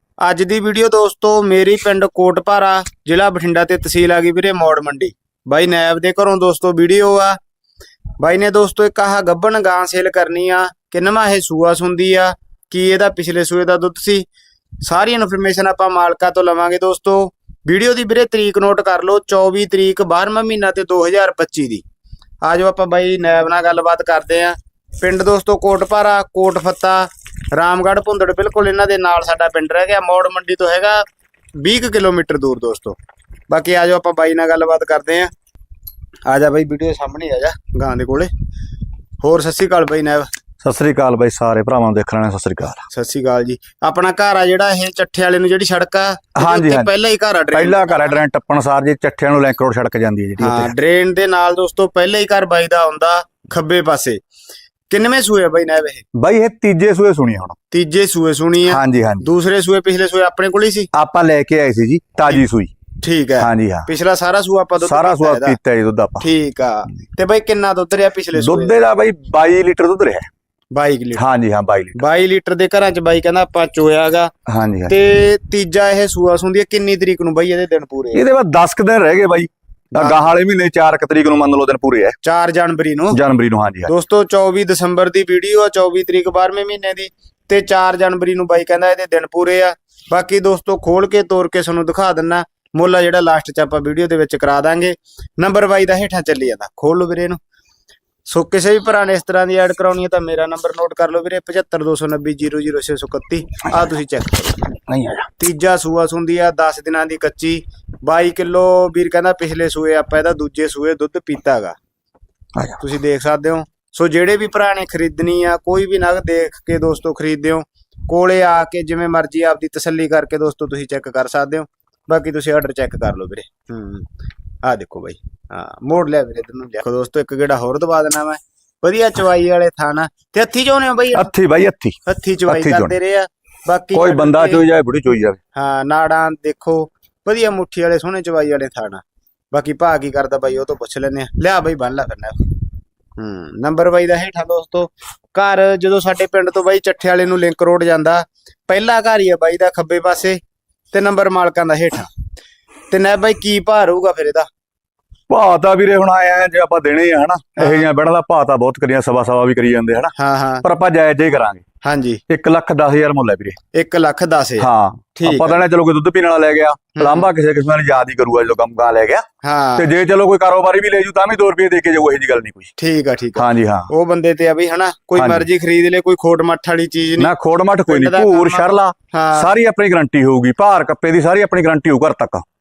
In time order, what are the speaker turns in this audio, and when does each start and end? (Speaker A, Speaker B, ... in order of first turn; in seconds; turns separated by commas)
Speaker A: 0.2-7.4, Speaker A: 8.2-14.3, Speaker A: 14.8-21.8, Speaker A: 22.4-31.0, Speaker A: 31.6-33.0, Speaker A: 33.5-35.3, Speaker A: 36.3-38.3, Speaker A: 39.2-40.3, Speaker B: 40.6-42.9, Speaker A: 42.9-48.2, Speaker B: 46.4-46.9, Speaker B: 47.5-50.7, Speaker A: 50.4-54.2, Speaker A: 54.9-56.0, Speaker B: 56.1-57.6, Speaker A: 57.7-60.9, Speaker B: 58.7-59.2, Speaker B: 60.9-62.7, Speaker A: 63.0-65.6, Speaker B: 63.4-63.9, Speaker B: 64.8-66.3, Speaker A: 66.2-68.8, Speaker B: 68.3-70.3, Speaker A: 70.7-71.3, Speaker B: 71.2-72.0, Speaker A: 72.0-74.3, Speaker B: 74.5-74.9, Speaker A: 74.9-78.2, Speaker B: 78.1-82.2, Speaker A: 80.0-80.3, Speaker A: 82.2-83.2, Speaker B: 83.1-83.9, Speaker A: 83.9-97.4, Speaker A: 98.3-104.8, Speaker B: 104.9-105.2, Speaker A: 105.4-111.8, Speaker A: 112.8-124.1, Speaker A: 124.6-131.3, Speaker B: 131.1-132.0, Speaker A: 132.1-134.6, Speaker B: 132.5-132.9, Speaker B: 133.9-135.4, Speaker A: 135.5-142.5, Speaker A: 143.2-150.4, Speaker A: 150.9-152.1, Speaker A: 152.9-154.5, Speaker B: 155.3-161.6, Speaker A: 157.6-157.9, Speaker A: 160.2-160.6, Speaker A: 161.8-162.2, Speaker B: 162.3-163.6, Speaker A: 163.7-165.7, Speaker B: 164.6-169.2, Speaker A: 166.9-167.3, Speaker A: 169.4-169.9, Speaker B: 169.8-172.7, Speaker A: 172.8-177.3, Speaker B: 173.3-173.9, Speaker B: 175.2-175.4, Speaker B: 177.2-182.4, Speaker A: 177.9-179.5